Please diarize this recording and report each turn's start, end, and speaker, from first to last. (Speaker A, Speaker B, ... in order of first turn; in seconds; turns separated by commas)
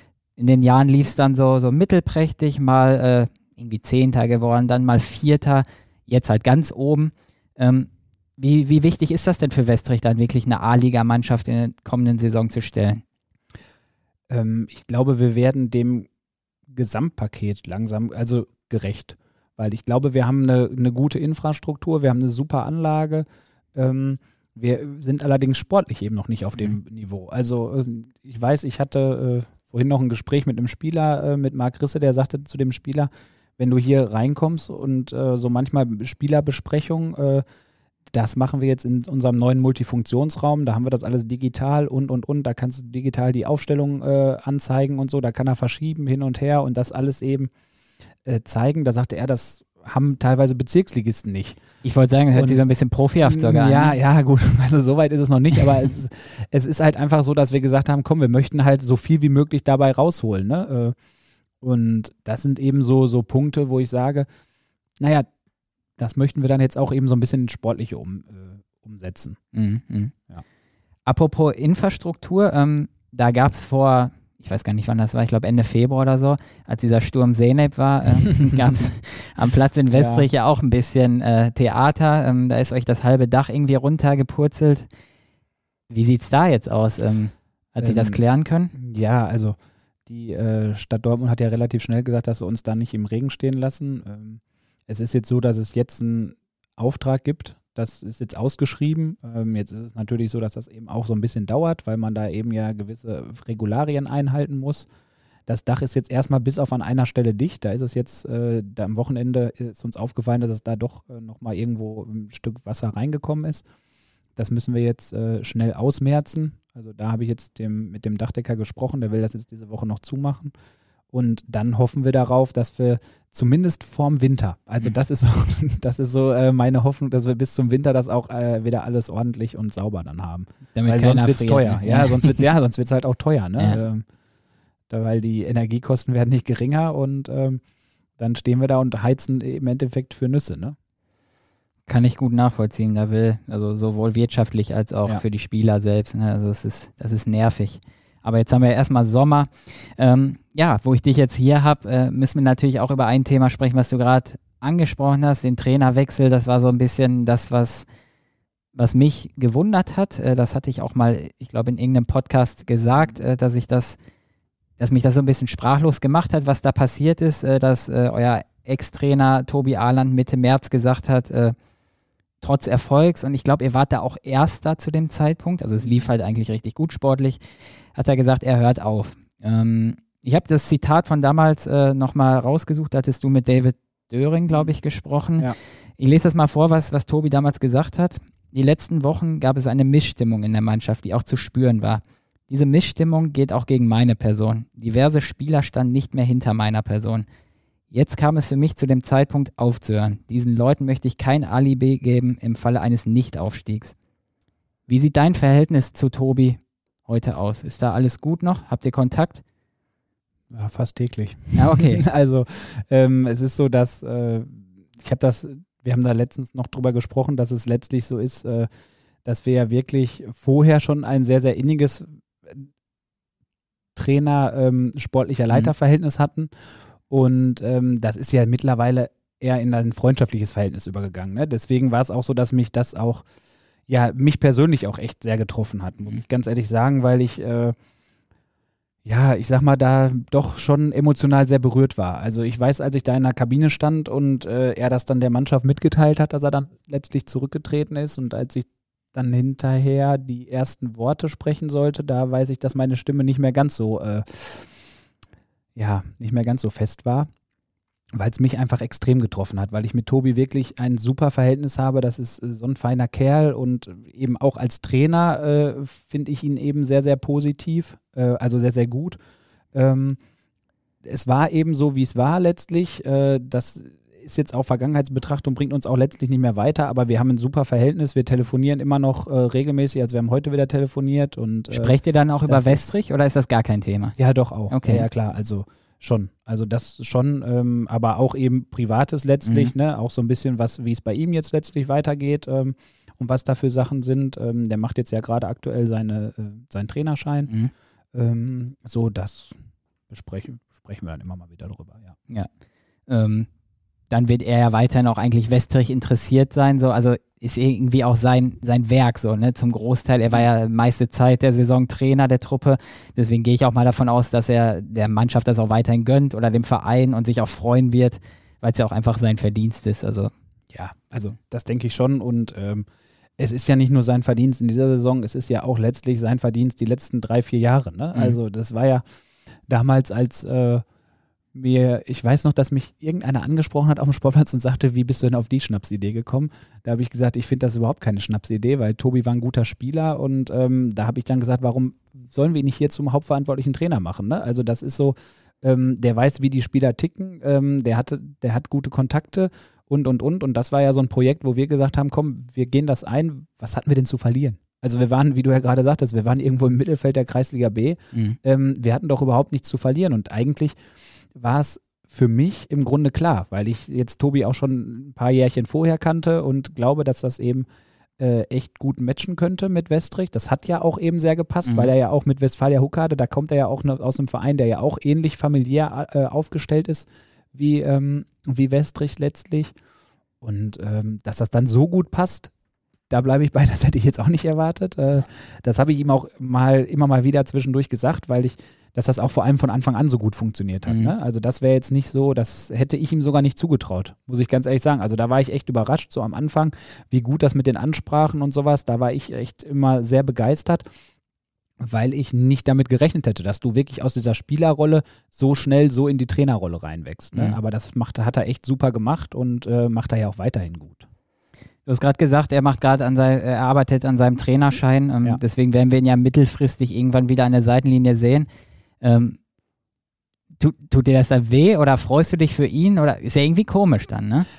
Speaker A: 0.4-13.0, Speaker B: 14.3-16.1, Speaker B: 16.7-37.4, Speaker B: 38.1-47.5, Speaker B: 48.2-51.6, Speaker A: 51.8-54.0, Speaker B: 52.4-52.6, Speaker B: 53.2-61.0, Speaker B: 61.6-64.3, Speaker B: 65.0-65.3, Speaker B: 66.0-69.4, Speaker A: 69.5-70.2, Speaker A: 71.1-84.9, Speaker B: 79.9-80.3, Speaker A: 85.9-88.7, Speaker B: 87.8-88.2, Speaker B: 88.8-104.9, Speaker B: 105.5-113.7, Speaker B: 114.4-120.5, Speaker B: 121.1-134.1, Speaker A: 130.7-132.4, Speaker B: 134.9-137.6, Speaker B: 138.2-140.8, Speaker A: 141.9-157.9, Speaker A: 158.8-164.0, Speaker A: 164.8-171.6, Speaker A: 172.4-177.4, Speaker B: 175.8-176.1, Speaker A: 177.9-197.3, Speaker A: 197.9-203.9, Speaker A: 204.9-209.4, Speaker B: 210.5-218.7, Speaker A: 211.6-212.1, Speaker B: 219.2-222.7, Speaker B: 223.9-226.5, Speaker B: 227.1-233.3, Speaker B: 233.9-237.8, Speaker B: 239.1-254.7, Speaker B: 255.8-257.3, Speaker B: 258.1-269.2, Speaker B: 269.7-270.2, Speaker B: 271.0-281.9, Speaker A: 281.7-284.2, Speaker B: 282.5-282.9, Speaker B: 284.2-297.5, Speaker A: 284.7-285.1, Speaker A: 289.5-289.7, Speaker B: 298.1-299.6, Speaker B: 300.1-302.2, Speaker A: 303.1-303.5, Speaker A: 304.1-320.3, Speaker B: 320.7-322.9, Speaker B: 323.4-329.0, Speaker B: 329.7-330.9, Speaker B: 331.5-360.8, Speaker B: 361.3-367.7, Speaker B: 368.2-379.7, Speaker B: 380.4-382.5, Speaker B: 383.1-400.9, Speaker A: 390.9-391.1, Speaker B: 401.8-411.1, Speaker A: 407.3-407.6, Speaker A: 411.9-418.5, Speaker A: 419.0-419.4, Speaker A: 420.6-424.5